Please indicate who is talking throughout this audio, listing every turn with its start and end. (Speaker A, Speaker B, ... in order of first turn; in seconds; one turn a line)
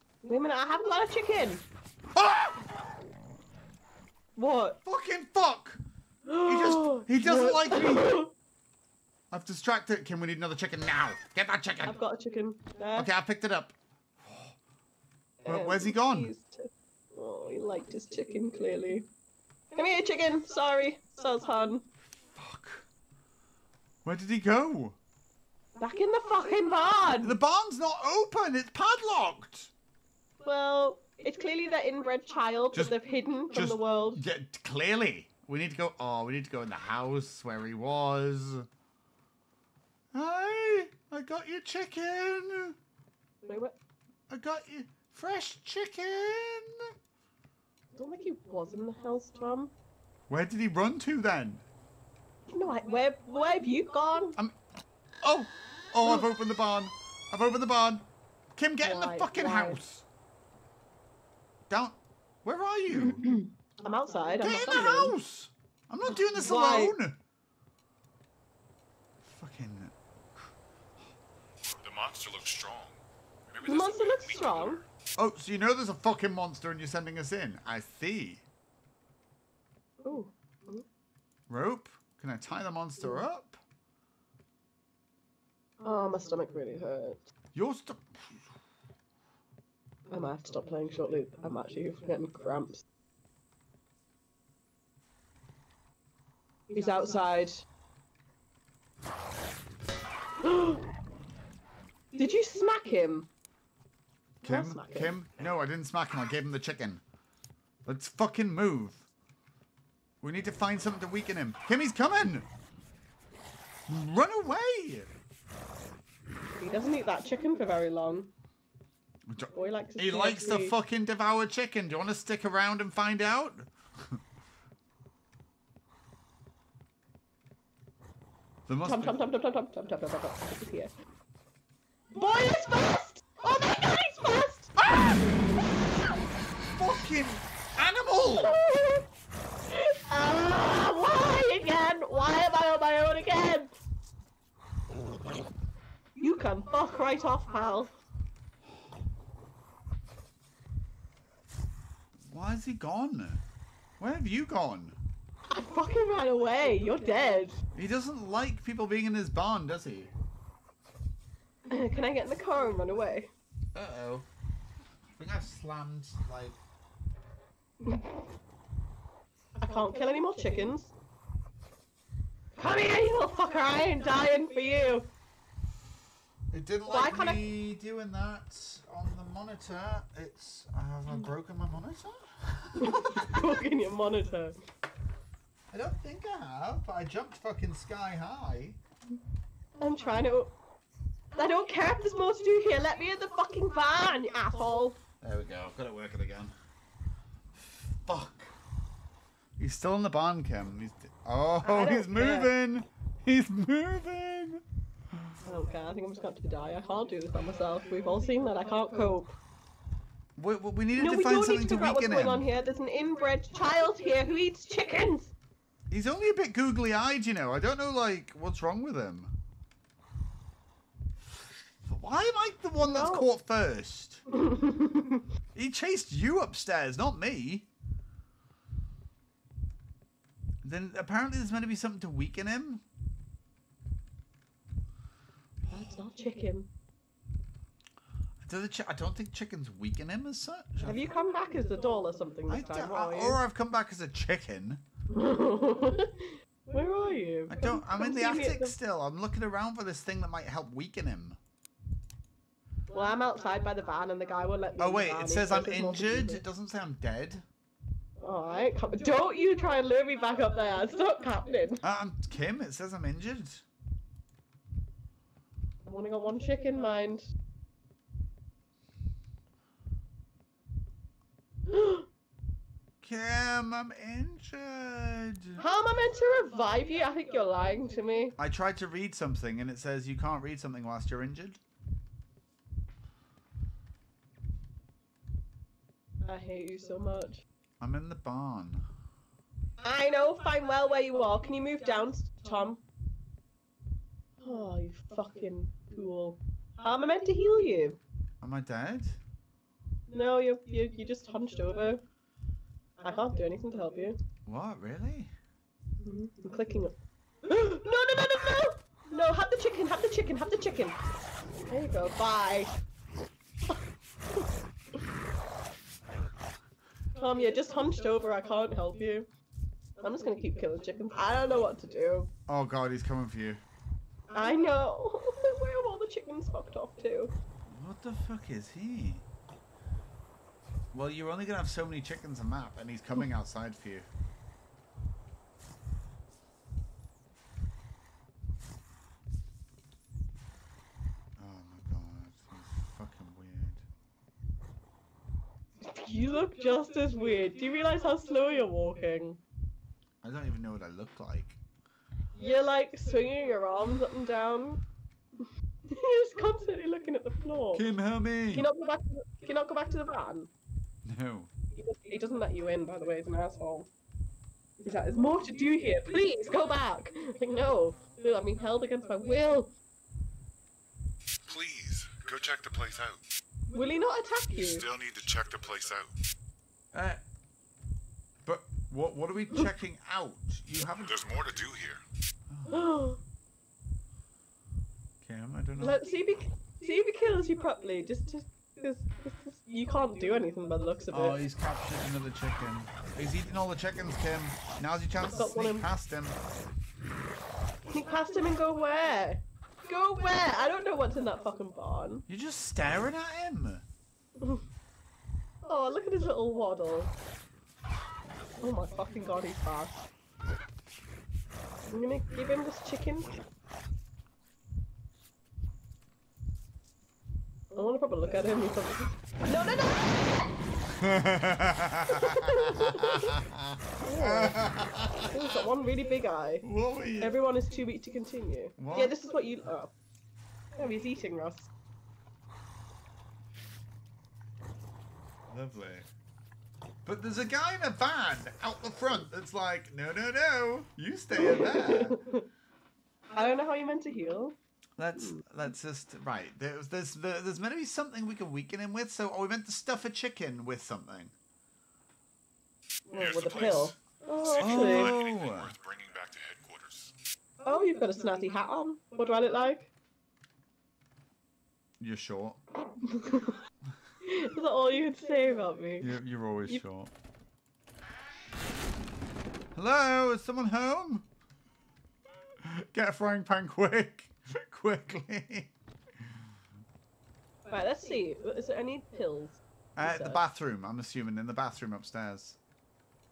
Speaker A: 0.2-1.6
Speaker B: 2.1-2.7
Speaker A: 4.3-4.8
Speaker B: 4.8-5.8
Speaker A: 6.2-8.3
Speaker B: 6.4-8.2
Speaker B: 9.3-12.0
Speaker A: 11.8-13.1
Speaker B: 12.9-14.6
Speaker A: 15.4-19.1
Speaker B: 15.4-16.3
Speaker A: 19.7-21.8
Speaker B: 22.3-22.9
Speaker B: 24.0-25.0
Speaker A: 25.8-27.4
Speaker B: 27.2-29.7
Speaker A: 30.4-34.2
Speaker B: 33.5-38.7
Speaker B: 40.1-42.8
Speaker A: 43.4-43.8
Speaker B: 44.3-46.9
Speaker A: 47.9-49.7
Speaker B: 50.3-51.6
Speaker A: 52.5-54.4
Speaker B: 55.2-60.0
Speaker A: 58.8-59.8
Speaker B: 61.7-63.2
Speaker A: 62.9-65.1
Speaker B: 64.4-67.2
Speaker A: 66.1-67.0
Speaker B: 69.2-70.5
Speaker C: 71.7-73.0
Speaker C: 73.5-74.8
Speaker A: 73.6-74.8
Speaker B: 75.2-78.4
Speaker A: 80.0-80.8
Speaker B: 81.5-83.6
Speaker A: 83.0-83.2
Speaker A: 85.8-87.3
Speaker B: 87.5-88.5
Speaker A: 90.1-92.8
Speaker A: 96.7-97.6
Speaker A: 100.4-100.8
Speaker A: 102.1-103.3
Speaker A: 104.4-105.1
Speaker B: 104.4-107.0
Speaker B: 107.8-109.1
Speaker B: 110.2-112.5
Speaker B: 113.9-115.1
Speaker A: 116.6-118.3
Speaker B: 119.3-124.2
Speaker A: 119.5-120.8
Speaker B: 128.7-129.2
Speaker A: 128.8-130.9
Speaker A: 132.1-134.7
Speaker B: 134.8-135.3
Speaker B: 136.8-138.6
Speaker A: 138.4-139.1
Speaker A: 139.7-143.7
Speaker A: 146.2-147.9
Speaker B: 152.3-153.4
Speaker B: 154.0-155.0
Speaker A: 155.5-157.6
Speaker B: 157.7-160.1
Speaker A: 161.7-163.3
Speaker B: 163.7-164.3
Speaker B: 165.2-166.6
Speaker A: 167.8-168.2
Speaker A: 169.6-170.9
Speaker A: 172.6-175.1
Speaker B: 176.5-183.4
Speaker A: 176.9-177.4
Speaker A: 182.8-184.6
Speaker B: 185.7-188.8
Speaker A: 189.8-190.5
Speaker A: 191.3-195.0
Speaker B: 195.2-196.5
Speaker B: 197.6-198.5
Speaker B: 199.6-204.6
Speaker A: 201.6-202.5
Speaker A: 205.4-209.3
Speaker B: 210.4-212.5
Speaker A: 210.9-215.3
Speaker B: 215.9-219.3
Speaker B: 221.8-224.2
Speaker A: 222.8-223.3
Speaker A: 224.3-225.2
Speaker B: 225.5-227.7
Speaker B: 230.6-232.8
Speaker A: 235.7-236.7
Speaker B: 238.4-241.0
Speaker A: 240.8-243.4
Speaker B: 242.5-244.8
Speaker A: 245.1-248.7
Speaker B: 247.5-251.4
Speaker A: 252.9-256.4
Speaker B: 254.8-257.4
Speaker A: 258.2-261.8
Speaker B: 261.8-263.6
Speaker A: 265.8-267.3
Speaker A: 271.7-272.1
Speaker B: 273.0-275.6
Speaker A: 275.6-278.4
Speaker B: 278.4-281.6
Speaker A: 286.2-287.4
Speaker B: 287.8-288.8
Speaker A: 289.8-292.8
Speaker A: 294.4-298.0
Speaker B: 298.4-299.2
Speaker A: 300.1-302.0
Speaker A: 303.0-304.2
Speaker B: 304.5-305.3
Speaker A: 306.0-311.0
Speaker A: 311.7-312.7
Speaker A: 317.1-319.3
Speaker A: 320.0-322.3
Speaker B: 322.5-323.6
Speaker A: 324.3-327.3
Speaker B: 327.7-329.2
Speaker B: 330.9-334.1
Speaker B: 341.4-343.8
Speaker A: 345.8-349.4
Speaker B: 350.2-351.6
Speaker A: 352.3-354.8
Speaker A: 355.4-357.8
Speaker B: 357.7-358.7
Speaker A: 358.5-360.5
Speaker B: 361.0-361.5
Speaker A: 361.7-363.9
Speaker A: 364.8-369.7
Speaker C: 371.4-373.2
Speaker A: 373.7-374.8
Speaker C: 374.5-376.1
Speaker B: 376.9-377.2
Speaker B: 378.4-381.2
Speaker C: 381.0-382.0
Speaker B: 382.5-382.9
Speaker A: 382.7-383.2
Speaker B: 385.2-386.0
Speaker A: 385.8-391.4
Speaker B: 391.1-396.4
Speaker A: 395.2-395.9
Speaker A: 397.9-402.2
Speaker B: 402.3-403.8
Speaker A: 404.4-404.6
Speaker A: 405.6-407.1
Speaker A: 408.6-410.1
Speaker A: 411.9-413.4
Speaker A: 417.7-420.5
Speaker B: 421.0-425.4
Speaker A: 422.1-423.4
Speaker A: 424.0-424.6
Speaker A: 425.3-426.6
Speaker B: 426.6-427.4
Speaker A: 427.2-429.9
Speaker B: 428.8-429.1
Speaker A: 430.7-431.7
Speaker B: 435.5-436.1
Speaker B: 437.0-442.2
Speaker A: 441.3-442.5
Speaker A: 443.3-444.6
Speaker B: 445.0-451.3
Speaker A: 445.2-445.4
Speaker A: 453.1-455.1
Speaker C: 453.1-457.1
Speaker B: 454.6-455.7
Speaker A: 457.6-459.9
Speaker B: 462.0-462.6
Speaker A: 463.0-463.6
Speaker A: 464.2-466.1
Speaker B: 466.0-467.1
Speaker B: 469.7-471.3
Speaker B: 472.6-475.7
Speaker A: 477.7-480.4
Speaker B: 479.9-482.6